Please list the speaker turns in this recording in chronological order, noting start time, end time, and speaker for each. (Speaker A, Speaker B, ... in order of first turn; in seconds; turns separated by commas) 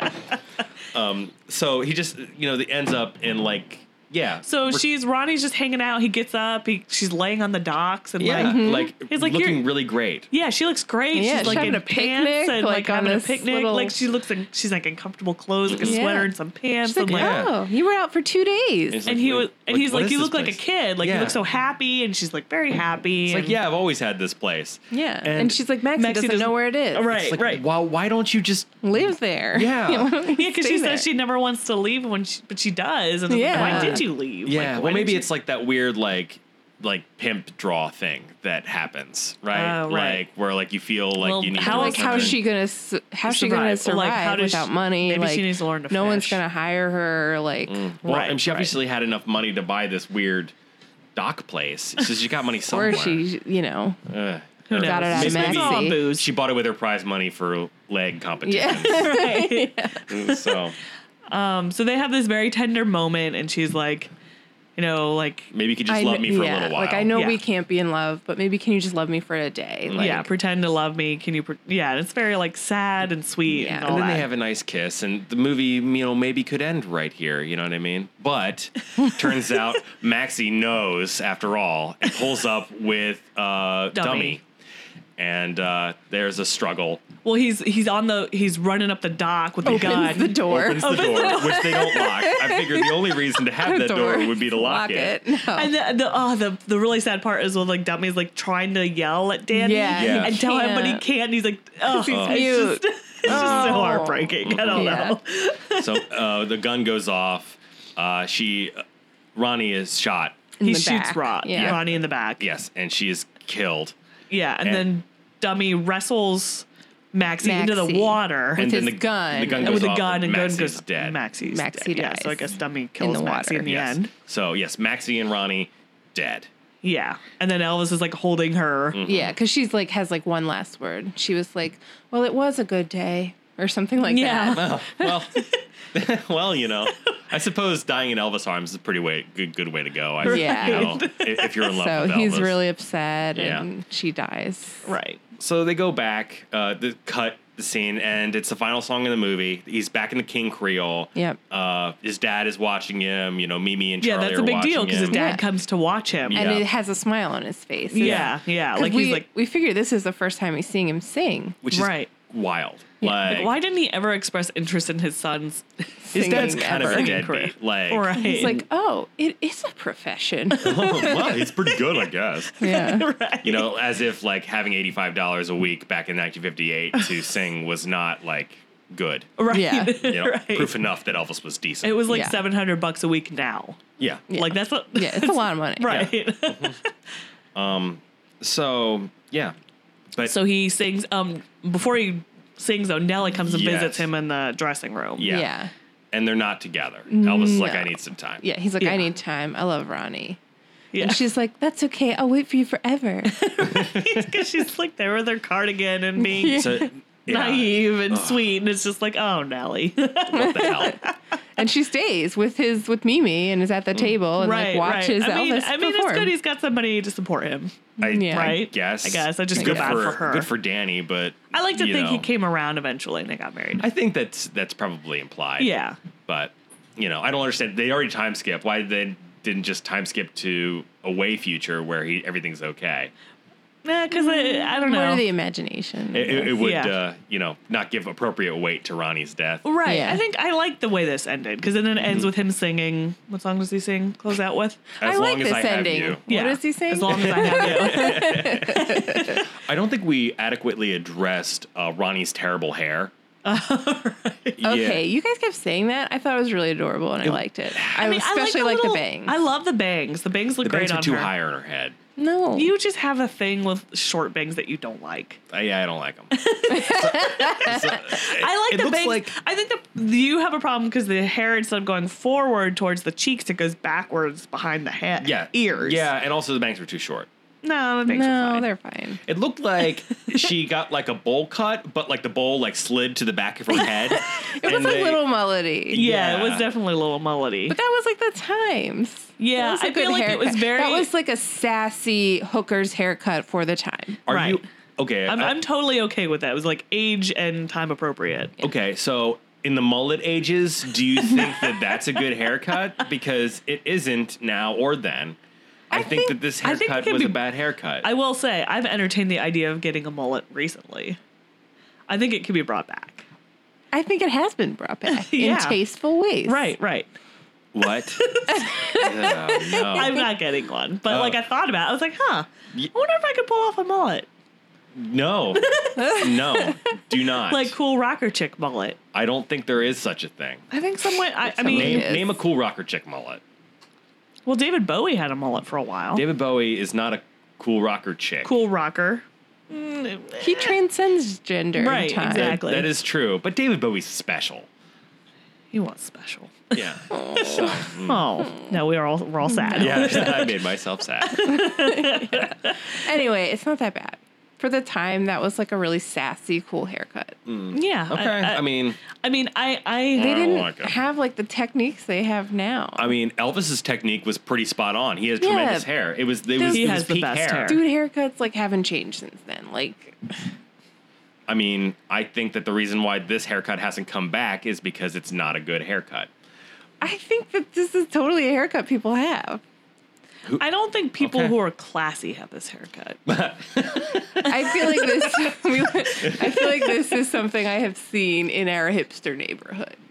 Speaker A: 0.9-4.8, Speaker B: 4.4-9.7, Speaker A: 8.2-10.3, Speaker C: 8.3-8.9, Speaker B: 10.3-17.4, Speaker C: 11.1-13.9, Speaker A: 11.3-11.8, Speaker A: 15.7-16.0, Speaker C: 15.8-16.3, Speaker C: 16.8-19.0, Speaker A: 17.1-17.5, Speaker A: 18.9-21.4, Speaker B: 19.1-23.6, Speaker A: 23.3-25.6, Speaker C: 24.9-27.1, Speaker B: 25.9-27.6, Speaker A: 27.1-28.7, Speaker C: 28.8-31.1, Speaker A: 29.5-30.2, Speaker B: 30.3-35.3, Speaker C: 33.3-34.0, Speaker A: 33.5-42.4, Speaker B: 39.5-40.2, Speaker B: 41.2-42.4, Speaker C: 41.6-47.9, Speaker B: 43.3-46.4, Speaker A: 47.7-50.5, Speaker B: 48.0-48.7, Speaker A: 51.1-53.2, Speaker C: 52.7-54.0, Speaker A: 54.0-59.2, Speaker B: 54.7-56.3, Speaker C: 54.7-56.0, Speaker C: 58.4-60.3, Speaker B: 58.9-60.4, Speaker A: 60.1-60.8, Speaker B: 61.3-64.1, Speaker B: 64.8-65.5, Speaker A: 65.5-67.1, Speaker C: 65.9-70.3, Speaker B: 67.1-67.4, Speaker A: 69.9-70.3, Speaker B: 69.9-74.3, Speaker C: 73.5-73.9, Speaker A: 73.8-84.4, Speaker B: 83.9-84.4, Speaker A: 85.2-87.0, Speaker B: 87.2-91.8, Speaker C: 89.6-95.7, Speaker A: 89.7-95.2, Speaker B: 95.5-106.1, Speaker C: 99.5-101.0, Speaker A: 99.9-100.4, Speaker C: 101.8-105.2, Speaker A: 102.1-102.5, Speaker A: 103.2-105.1, Speaker A: 105.7-108.8, Speaker A: 109.3-110.4, Speaker C: 110.6-111.8, Speaker B: 110.6-112.4, Speaker A: 111.5-113.9, Speaker B: 114.3-118.7, Speaker C: 117.4-119.9, Speaker A: 118.5-121.2, Speaker B: 119.6-124.1, Speaker C: 121.4-123.7, Speaker A: 123.6-126.5, Speaker B: 126.8-129.0, Speaker A: 128.9-129.3, Speaker C: 129.0-135.2, Speaker B: 134.0-134.8, Speaker A: 134.5-135.4, Speaker A: 135.9-142.6, Speaker B: 140.2-141.6, Speaker C: 140.2-141.1, Speaker C: 141.6-144.9, Speaker A: 143.3-143.7, Speaker B: 144.8-145.2, Speaker A: 145.4-155.2, Speaker B: 154.0-156.5, Speaker C: 155.1-155.4, Speaker A: 156.2-156.6, Speaker C: 156.3-161.6, Speaker B: 157.9-159.2, Speaker A: 158.0-158.3, Speaker A: 161.6-163.5, Speaker B: 161.7-162.1, Speaker B: 163.0-168.6, Speaker C: 166.0-167.2, Speaker A: 166.1-168.5, Speaker C: 168.1-171.4, Speaker B: 170.6-171.4, Speaker A: 170.6-172.5, Speaker B: 172.5-173.7, Speaker C: 172.6-173.1, Speaker A: 173.4-179.3, Speaker B: 179.4-180.7, Speaker C: 179.5-180.0, Speaker A: 180.0-182.1, Speaker B: 181.8-186.9, Speaker C: 182.1-182.4, Speaker A: 184.0-184.2, Speaker C: 184.3-186.0, Speaker A: 185.8-186.8, Speaker A: 187.5-189.5, Speaker B: 190.2-195.3, Speaker A: 193.4-194.1, Speaker A: 195.2-195.5, Speaker C: 195.2-195.7, Speaker A: 196.1-198.4, Speaker C: 197.1-200.4, Speaker B: 198.8-199.1, Speaker B: 200.9-201.2, Speaker C: 201.0-203.4, Speaker B: 203.2-211.1, Speaker A: 203.6-204.3, Speaker C: 206.2-206.9, Speaker A: 206.5-208.5, Speaker A: 210.3-211.0, Speaker C: 210.3-211.0, Speaker C: 211.6-216.3, Speaker B: 214.4-220.5, Speaker C: 218.0-218.6, Speaker A: 218.0-222.3, Speaker C: 219.6-220.1, Speaker B: 221.5-223.8, Speaker A: 223.8-225.7, Speaker B: 225.6-226.0, Speaker A: 226.2-233.1, Speaker B: 233.8-235.2, Speaker C: 234.1-236.6, Speaker A: 236.1-239.7, Speaker B: 236.6-236.9, Speaker B: 239.6-244.9, Speaker C: 239.8-240.2, Speaker A: 242.0-242.3, Speaker A: 245.0-246.2, Speaker C: 245.0-249.4, Speaker B: 246.3-249.4, Speaker A: 247.1-253.1, Speaker B: 253.4-254.6, Speaker A: 254.6-255.0, Speaker C: 254.6-259.3, Speaker A: 257.2-257.9, Speaker B: 257.9-261.3, Speaker A: 260.6-261.9, Speaker C: 262.2-262.7, Speaker B: 262.5-265.4, Speaker A: 265.5-269.3, Speaker B: 266.3-276.1, Speaker C: 266.7-267.9, Speaker A: 275.2-277.3, Speaker B: 277.6-278.6, Speaker C: 278.1-279.2, Speaker A: 279.2-285.3, Speaker B: 280.1-280.5, Speaker C: 283.7-286.0, Speaker A: 285.9-286.7, Speaker B: 285.9-287.8, Speaker C: 287.7-294.2, Speaker B: 289.4-291.1, Speaker A: 294.2-295.6, Speaker B: 294.3-294.6, Speaker B: 295.3-298.6, Speaker A: 298.6-305.4, Speaker B: 301.2-301.9, Speaker A: 305.9-308.1, Speaker B: 306.1-307.4, Speaker B: 308.0-311.2, Speaker B: 312.1-313.2, Speaker C: 313.9-316.7, Speaker B: 315.1-315.8, Speaker B: 316.4-317.1, Speaker A: 317.7-318.2, Speaker B: 318.1-324.3, Speaker C: 318.5-320.2, Speaker A: 318.9-320.2, Speaker A: 321.1-321.4, Speaker A: 324.9-327.7, Speaker B: 325.5-326.5, Speaker C: 326.0-326.7, Speaker B: 327.5-329.0, Speaker A: 329.1-330.6, Speaker B: 330.7-332.1, Speaker C: 331.4-332.4, Speaker A: 331.7-333.4, Speaker B: 334.4-336.2, Speaker A: 336.1-338.5, Speaker B: 338.4-340.7, Speaker C: 340.4-342.6, Speaker B: 341.8-342.9, Speaker A: 342.3-344.7, Speaker B: 345.7-350.6, Speaker A: 346.7-348.3, Speaker C: 347.1-347.8, Speaker C: 349.4-350.1, Speaker A: 349.8-351.6, Speaker B: 351.2-352.8, Speaker C: 351.4-357.4, Speaker A: 357.4-359.0, Speaker B: 357.7-360.4, Speaker A: 360.1-360.9, Speaker C: 360.1-363.1, Speaker A: 362.9-367.8, Speaker C: 365.4-365.9, Speaker C: 366.6-366.9, Speaker B: 366.6-367.8, Speaker C: 367.6-370.3, Speaker A: 371.5-376.3, Speaker C: 377.0-379.6, Speaker B: 380.6-383.2, Speaker A: 381.2-381.5, Speaker A: 383.2-384.7, Speaker C: 384.4-390.0, Speaker B: 384.7-385.3, Speaker A: 386.2-386.6